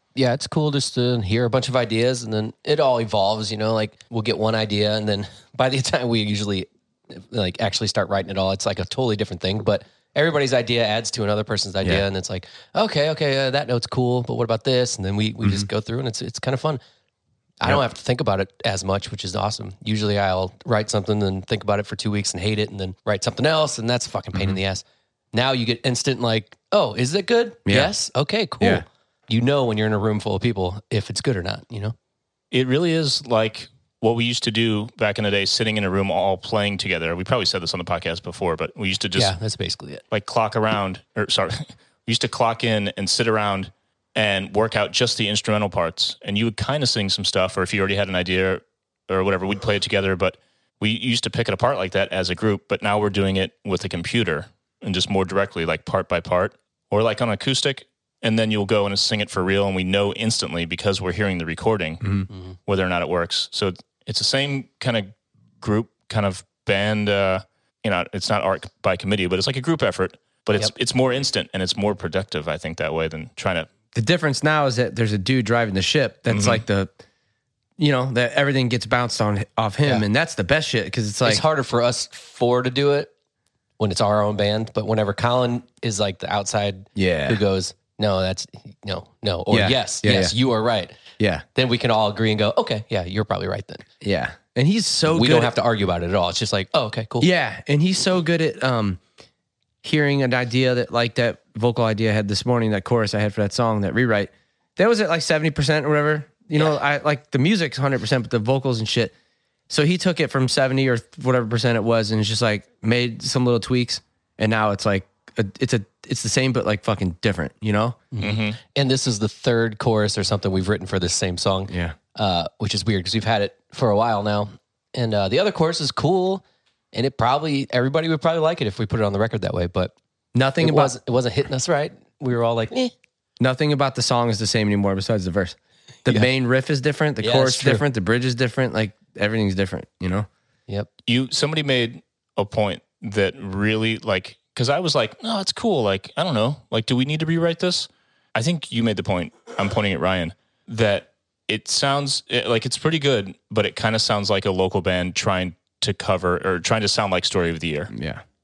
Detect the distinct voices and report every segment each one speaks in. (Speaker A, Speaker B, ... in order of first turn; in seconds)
Speaker A: 0.1-16.8, 17.6-31.9, 39.1-40.0, 81.2-83.1, 83.8-91.0, 91.5-93.8, 95.1-97.3, 118.1-129.9, 130.6-132.9, 137.2-137.8
Speaker B: 27.7-27.9, 74.0-76.9, 77.8-81.4, 87.0-87.4, 89.5-90.3, 91.2-91.4, 94.0-95.5, 97.2-99.0, 99.8-109.1, 109.7-118.0, 121.7-122.0, 130.3-130.9, 133.4-140.3, 157.9-158.2
Speaker C: 32.5-39.3, 40.1-62.0, 62.7-73.7, 76.3-76.6, 118.2-118.6, 141.1-157.9